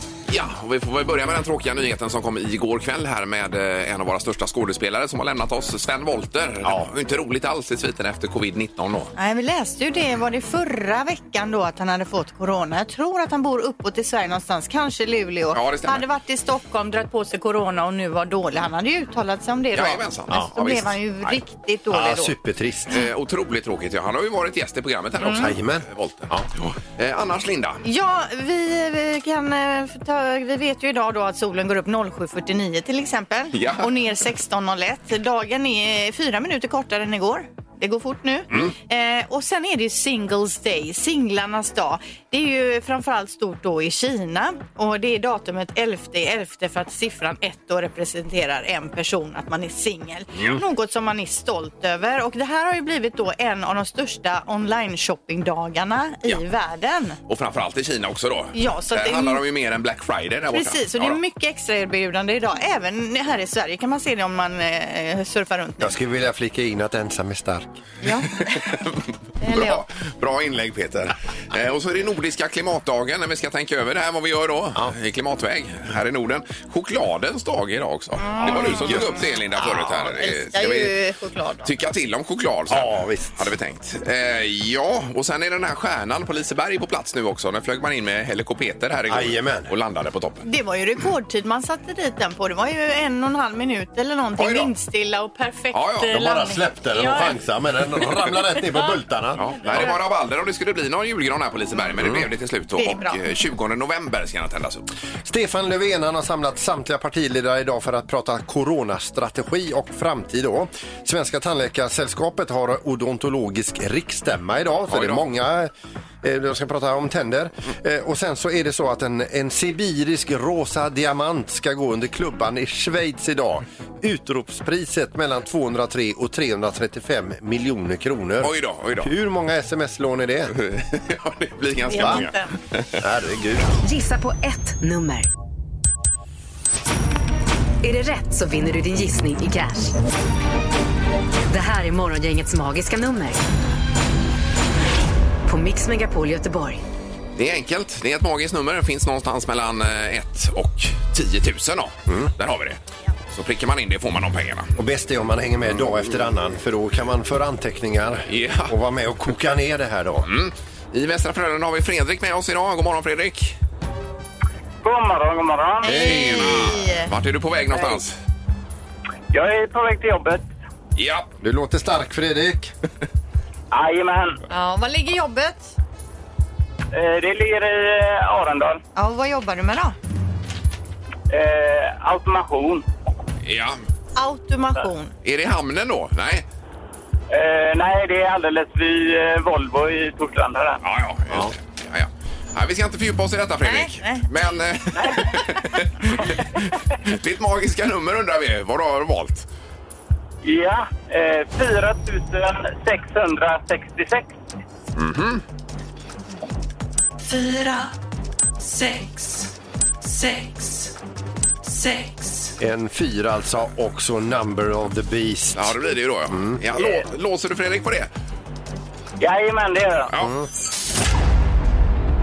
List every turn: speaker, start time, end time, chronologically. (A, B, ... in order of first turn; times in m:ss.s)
0:00.3-0:09.1 A
0:06.6-0:06.9 B
0:09.2-0:22.3 C
0:15.5-0:16.0 A
0:19.7-0:21.4 A
0:21.9-0:23.0 B
0:22.9-0:27.8 A
0:25.2-0:25.5 C
0:25.3-0:26.5 B
0:27.8-0:57.2 C
0:33.5-0:33.9 A
0:57.3-1:01.2 A
0:58.5-0:59.4 C
1:00.5-1:06.0 C
1:05.8-1:07.8 B
1:08.0-1:08.8 C
1:08.4-1:20.9 A
1:09.4-1:09.8 C
1:18.2-1:21.7 C
1:18.4-1:19.0 B
1:21.6-1:30.4 A
1:22.7-1:23.5 B
1:29.1-1:29.7 B
1:30.4-1:37.4 C
1:34.4-1:34.7 A
1:35.7-1:36.1 A
1:36.1-1:39.9 B
1:38.6-1:39.0 C
1:39.4-1:44.8 A
1:39.5-1:40.0 C
1:42.8-1:43.2 C
1:45.2-2:10.5 B
1:54.9-1:55.2 A
2:08.4-2:09.1 A
2:10.5-2:13.0 A
2:11.9-2:12.5 C
2:12.0-2:12.2 B
2:13.0-2:13.7 B
2:13.8-2:15.3 D
2:17.8-2:19.9 D
2:21.5-2:23.4 D
2:25.4-2:26.8 D
2:27.4-2:32.8 A
2:32.1-2:32.3 B
2:33.3-2:34.7 A
2:34.8-2:40.3 B
2:38.3-2:38.7 A
2:40.2-2:43.6 A
2:44.8-2:45.9 E
2:45.8-2:47.1 C
2:45.9-2:48.1 A
2:45.9-2:46.6 B
2:49.3-2:50.5 E
2:51.0-2:51.3 A
2:51.4-2:52.7 B
2:53.7-2:54.4 E
2:54.5-2:55.7 C
2:56.9-2:58.8 E
2:58.9-3:00.0 C
3:01.3-3:02.8 E
3:03.4-3:03.8 A
3:04.2-3:05.1 C
3:05.2-3:06.4 A
3:07.3-3:10.8 E
3:10.8-3:19.5 A
3:13.6-3:14.2 C
3:20.4-3:24.4 E
3:25.0-3:25.4 A
3:27.2-3:27.9 F
3:28.6-3:29.5 F
3:30.0-3:30.9 F
3:31.6-3:32.5 F
3:32.6-3:35.8 B
3:35.5-3:38.1 A
3:36.3-3:36.6 B
3:36.8-3:37.0 E
3:39.2-3:40.1 E
3:40.2-3:40.5 B